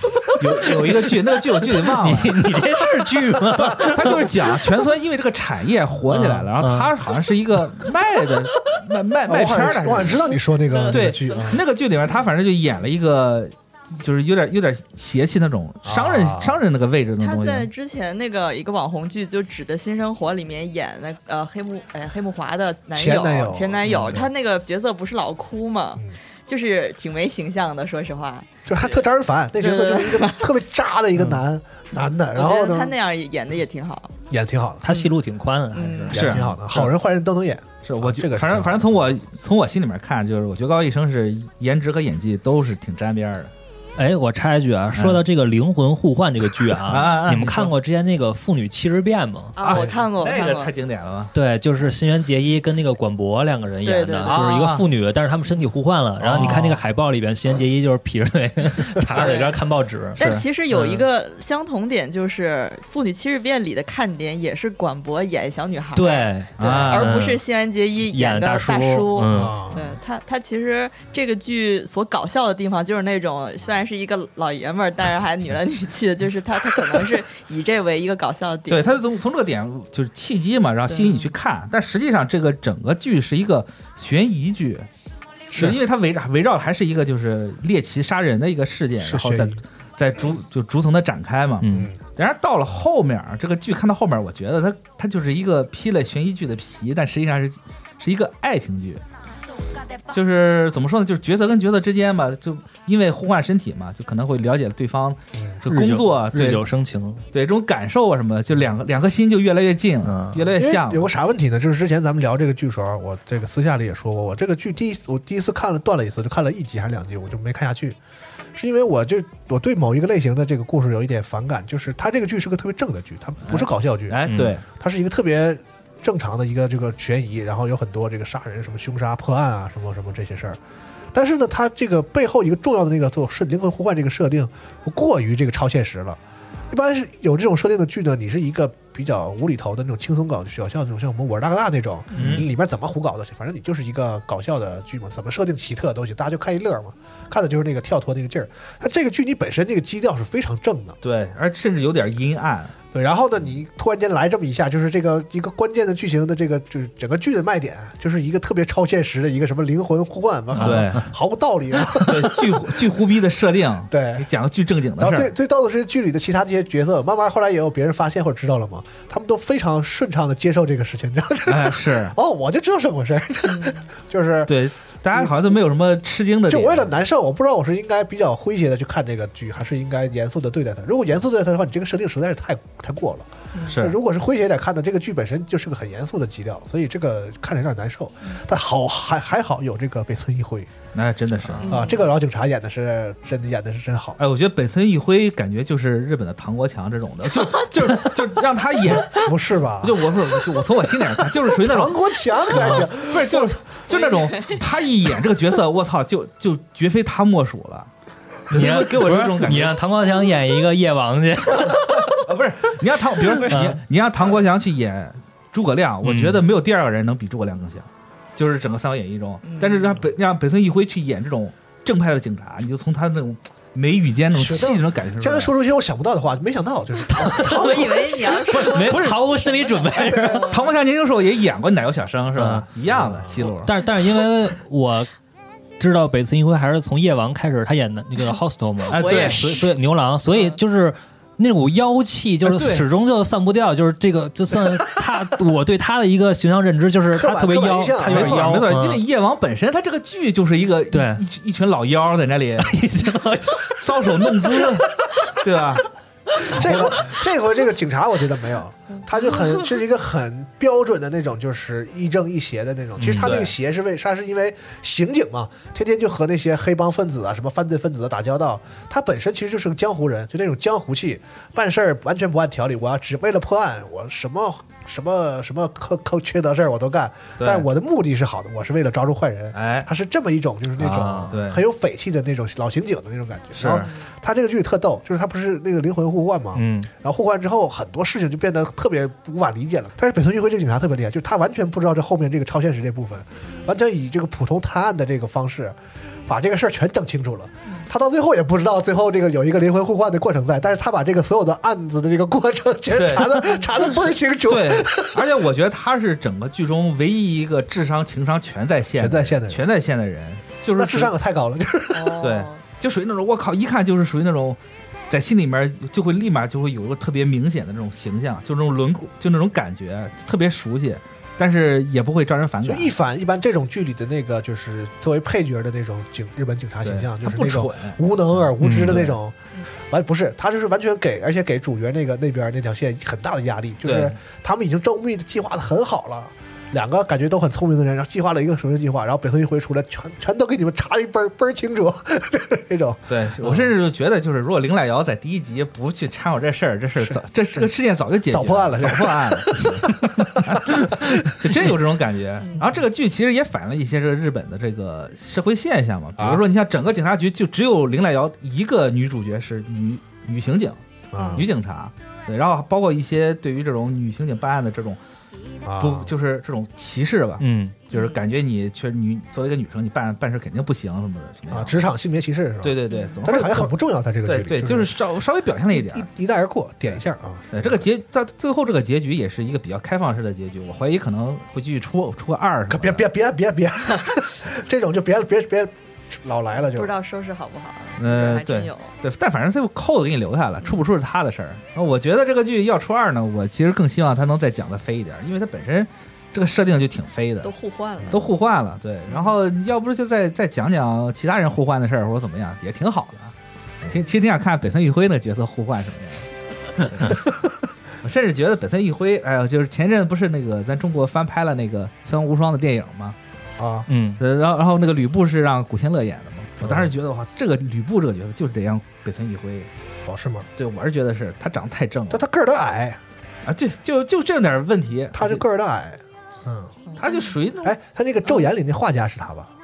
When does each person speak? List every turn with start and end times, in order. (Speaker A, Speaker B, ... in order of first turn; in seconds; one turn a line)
Speaker A: 0.4-2.7
Speaker B: 1.7-4.6
Speaker A: 3.6-10.3
Speaker B: 6.1-6.9
Speaker C: 9.3-11.6
Speaker D: 10.0-11.6
Speaker A: 10.9-17.7
Speaker C: 15.8-16.6
Speaker D: 17.2-29.1
Speaker C: 22.9-24.3
Speaker C: 28.7-33.0
Speaker D: 29.6-30.5
Speaker D: 32.4-34.1
Speaker C: 34.3-34.9
Speaker B: 34.8-36.5
Speaker D: 34.9-35.1
Speaker D: 35.7-36.2
Speaker C: 36.1-39.0
Speaker A: 36.1-36.9
Speaker A: 37.8-43.5
Speaker B: 44.0-49.6
Speaker A: 45.0-45.2
Speaker A: 46.8-47.7
Speaker D: 49.6-50.7
Speaker A: 49.6-51.3
Speaker C: 49.7-50.0
Speaker B: 51.3-60.3
Speaker D: 53.8-54.5
Speaker A: 54.2-54.9
Speaker A: 56.3-56.6
Speaker C: 56.3-56.8
Speaker D: 59.1-59.6
Speaker A: 60.2-61.0
Speaker D: 60.2-79.0
Speaker B: 66.0-67.4
Speaker A: 66.6-67.3
Speaker B: 68.1-69.6
Speaker C: 69.3-70.0
Speaker A: 78.7-84.9
Speaker D: 80.9-81.3
Speaker A: 85.5-99.0
Speaker C: 89.0-89.6
Speaker B: 91.6-91.9
Speaker C: 91.7-92.0
Speaker A: 100.1-106.7
Speaker C: 105.4-105.6
Speaker B: 105.7-107.3
Speaker A: 107.3-111.1
Speaker B: 110.0-110.5
Speaker C: 110.6-118.0
Speaker C: 118.5-130.6
Speaker A: 123.5-124.7
Speaker B: 124.3-124.5
Speaker C: 131.1-151.0
Speaker A: 142.2-142.5
Speaker B: 142.2-142.4
Speaker A: 151.0-152.7
Speaker C: 152.9-162.8
Speaker B: 160.6-161.1
Speaker A: 160.6-161.1
Speaker A: 161.9-165.3
Speaker C: 163.9-164.3
Speaker C: 165.0-174.6
Speaker A: 171.5-172.2
Speaker D: 173.5-173.9
Speaker A: 174.5-176.9
Speaker C: 176.5-190.8
Speaker D: 183.5-183.8
Speaker A: 183.7-183.9
Speaker A: 190.9-191.9
Speaker C: 191.6-194.2
Speaker D: 191.6-192.1
Speaker A: 194.2-202.0
Speaker C: 199.1-200.1
Speaker C: 201.4-203.5
Speaker A: 202.5-207.9
Speaker D: 203.9-204.6
Speaker A: 208.5-209.8
Speaker B: 208.5-212.2
Speaker A: 211.6-225.5
Speaker B: 213.4-213.8
Speaker B: 216.0-216.4
Speaker D: 219.4-220.0
Speaker C: 224.3-228.6
Speaker D: 227.1-230.7
Speaker B: 227.2-230.5
Speaker A: 228.7-229.3
Speaker A: 230.4-233.7
Speaker B: 232.4-232.7
Speaker C: 232.9-233.4
Speaker B: 233.6-235.1
Speaker B: 235.8-249.0
Speaker A: 238.9-239.7
Speaker D: 238.9-239.7
Speaker A: 242.5-242.8
Speaker C: 247.1-248.6
Speaker A: 248.1-252.8
Speaker B: 250.9-251.2
Speaker B: 252.6-253.8
Speaker A: 253.5-255.9
Speaker A: 256.5-257.0
Speaker C: 256.5-305.3
Speaker B: 263.0-263.4
Speaker A: 263.1-263.5
Speaker A: 277.4-277.7
Speaker A: 279.5-279.9
Speaker B: 280.8-281.4
Speaker A: 280.9-281.6
Speaker A: 283.6-283.9
Speaker D: 283.8-284.1
Speaker B: 286.6-286.9
Speaker A: 302.9-303.4
Speaker A: 304.5-311.1
Speaker C: 308.9-309.6
Speaker C: 310.8-312.2
Speaker D: 311.9-312.6
Speaker A: 312.2-322.9
Speaker C: 322.6-329.4
Speaker A: 326.8-329.2
Speaker B: 328.6-328.9
Speaker C: 329.9-343.7
Speaker A: 333.9-334.2
Speaker A: 343.1-360.8
Speaker C: 347.0-347.7
Speaker C: 348.3-351.6
Speaker D: 352.4-352.7
Speaker C: 361.1-361.5
Speaker D: 361.2-361.5
Speaker A: 361.4-365.0
Speaker C: 365.6-366.1
Speaker A: 365.8-371.8
Speaker B: 367.4-367.8
Speaker D: 367.9-368.2
Speaker C: 371.5-375.0
Speaker A: 372.6-373.7
Speaker D: 372.9-373.2
Speaker A: 374.2-376.1
Speaker C: 375.7-377.8
Speaker A: 377.5-383.1
Speaker C: 382.7-386.9
Speaker D: 386.6-389.0
Speaker A: 388.0-397.5
Speaker D: 397.4-398.3
Speaker A: 398.1-406.3
Speaker D: 399.1-399.3
Speaker A: 406.8-407.3
Speaker A: 408.0-413.2
Speaker C: 413.6-413.9
Speaker B: 413.9-414.2
Speaker A: 414.2-419.7
Speaker C: 416.6-416.9
Speaker C: 420.1-420.5
Speaker A: 420.6-422.2
Speaker C: 422.1-423.0
Speaker A: 423.5-425.4
Speaker C: 425.1-426.8
Speaker D: 426.9-427.4
Speaker A: 427.0-427.8
Speaker C: 427.6-429.5